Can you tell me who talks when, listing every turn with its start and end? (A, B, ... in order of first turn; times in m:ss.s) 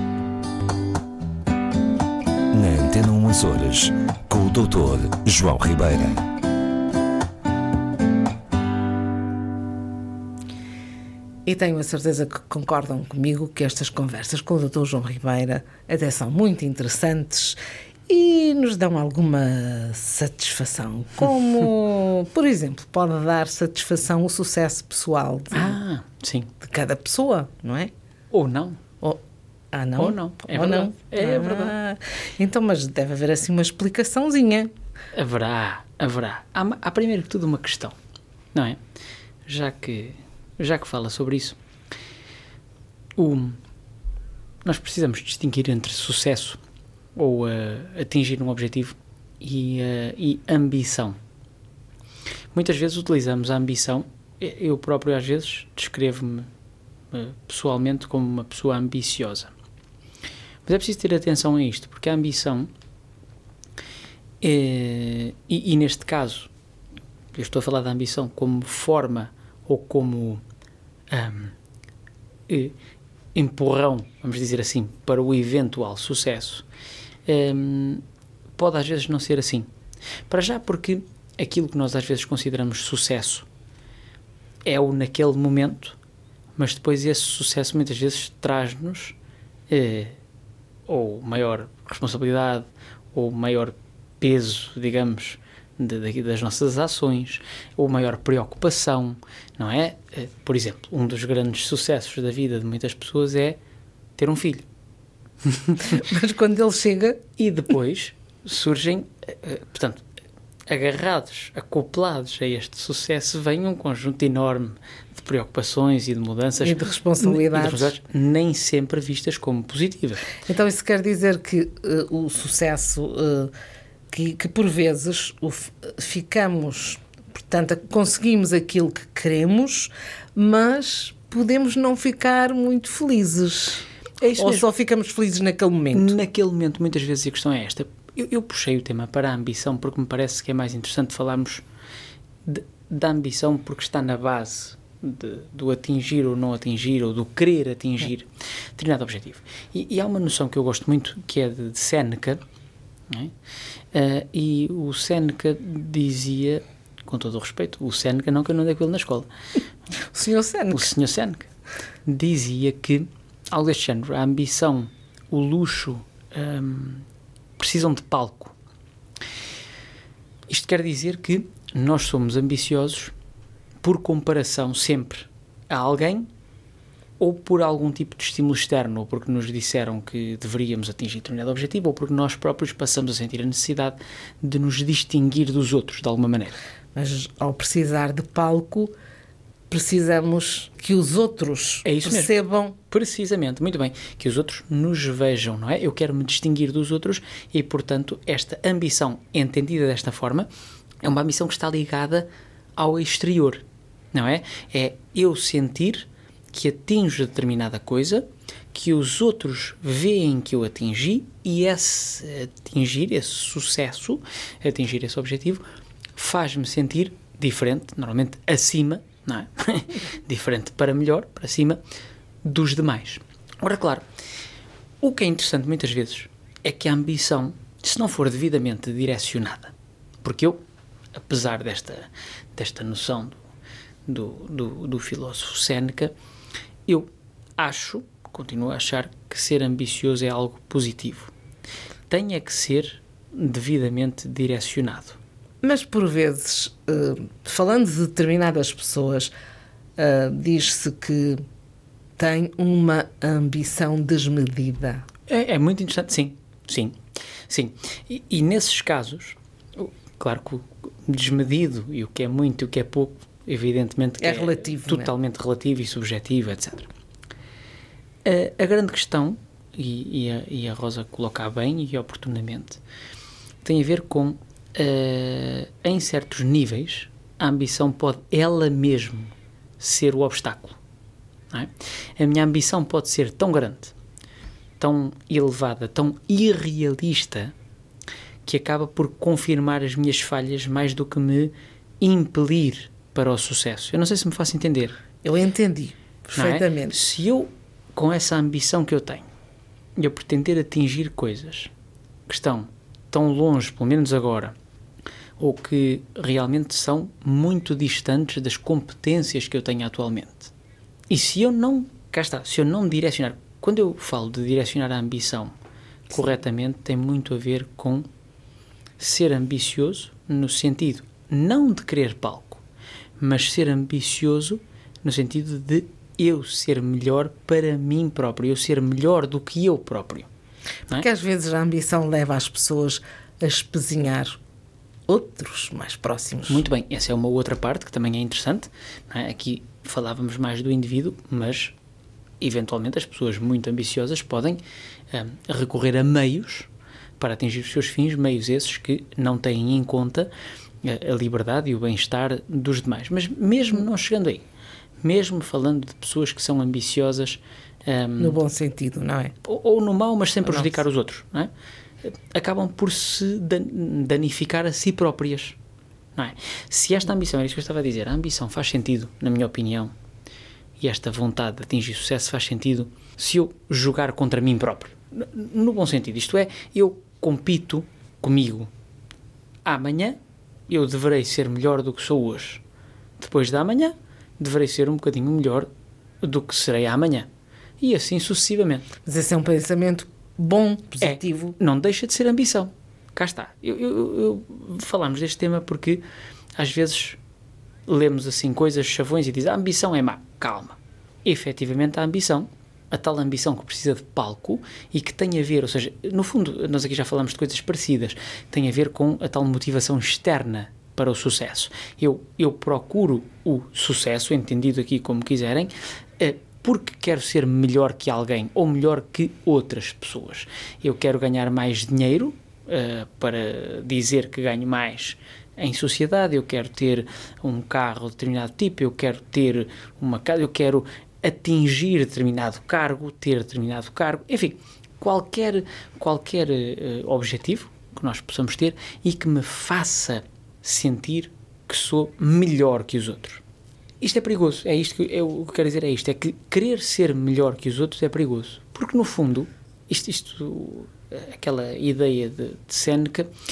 0:02.5-0:06.2 A
0:11.4-0:17.6 B
0:18.1-0:25.8 B
0:25.5-0:26.5 C
0:26.6-0:27.9 B
0:28.3-0:28.8 C
0:29.7-0:34.7 B
0:30.0-0:31.7 C
0:35.1-0:37.9 C
0:38.5-0:38.8 C
0:39.4-0:41.6 C
0:43.2-0:43.6 C
0:44.6-0:46.6 C
0:47.2-0:51.2 C
0:52.5-0:56.5 C
0:57.1-0:59.5 C
1:00.6-1:02.7 C
1:04.4-1:06.5 C
1:07.3-1:10.4 C
1:11.1-1:11.5 C
1:12.5-1:12.8 C
1:13.3-1:16.6 C
1:17.2-1:18.0 C
1:18.6-1:19.7 C
1:20.3-1:23.5 C
1:24.6-1:26.0 C
1:26.6-1:29.2 C
1:29.7-1:30.2 C
1:30.9-1:43.6 C
1:44.2-1:44.6 C
1:45.8-1:47.2 B
1:47.4-1:50.0 C
1:50.7-2:00.3 C
1:56.6-1:57.9 B
2:00.4-2:03.5 B
2:04.1-2:13.8 B
2:14.2-2:14.6 C
2:14.4-2:16.1 B
2:15.9-2:21.6 C
2:22.4-2:32.4 C
2:33.9-2:39.3 C
2:40.1-2:40.9 B
2:40.7-2:41.5 C
2:42.0-2:47.0 C
2:47.6-2:48.5 C
2:50.5-2:53.1 C
2:53.8-2:56.3 C
2:57.2-3:06.6 C
3:06.9-3:08.9 B
3:09.7-3:12.7 B
3:11.8-3:12.3 C
3:12.9-3:20.5 C
3:21.0-3:35.6 C
3:36.2-3:41.8 C
3:42.4-3:44.0 C
3:45.0-3:50.6 C
3:51.2-3:53.4 C
3:54.0-3:56.1 C
3:56.8-4:01.3 C
4:02.1-4:05.2 C
4:05.6-4:09.3 B
4:10.0-4:11.4 B
4:12.2-4:15.0 B
4:15.3-4:16.9 C
4:17.5-4:26.9 C
4:24.2-4:25.1 B
4:28.2-4:32.8 C
4:33.6-4:40.8 C
4:41.5-4:43.9 C
4:44.8-4:47.5 C
4:48.4-4:55.0 C
4:55.2-4:57.0 B
4:56.3-4:59.3 C
5:00.0-5:01.7 C
5:02.3-5:04.6 C
5:05.4-5:10.5 C
5:11.1-5:15.5 C
5:16.1-5:18.1 C
5:19.0-5:22.6 C
5:23.2-5:30.3 C
5:30.9-5:34.4 B
5:35.1-5:36.6 B
5:36.5-5:41.7 C
5:42.4-5:50.3 C
5:50.8-5:54.4 C
5:55.0-5:58.4 C
5:58.2-5:59.3 B
5:59.4-6:01.5 C
6:02.0-6:05.6 C
6:06.2-6:09.9 C
6:10.8-6:18.7 C
6:19.6-6:20.2 C
6:20.7-6:22.6 C
6:23.2-6:25.7 C
6:26.2-6:27.3 C
6:27.8-6:28.9 C
6:29.0-6:31.6 B
6:31.0-6:36.0 C
6:36.6-6:37.2 C
6:37.9-7:23.4 C
7:24.0-7:33.3 C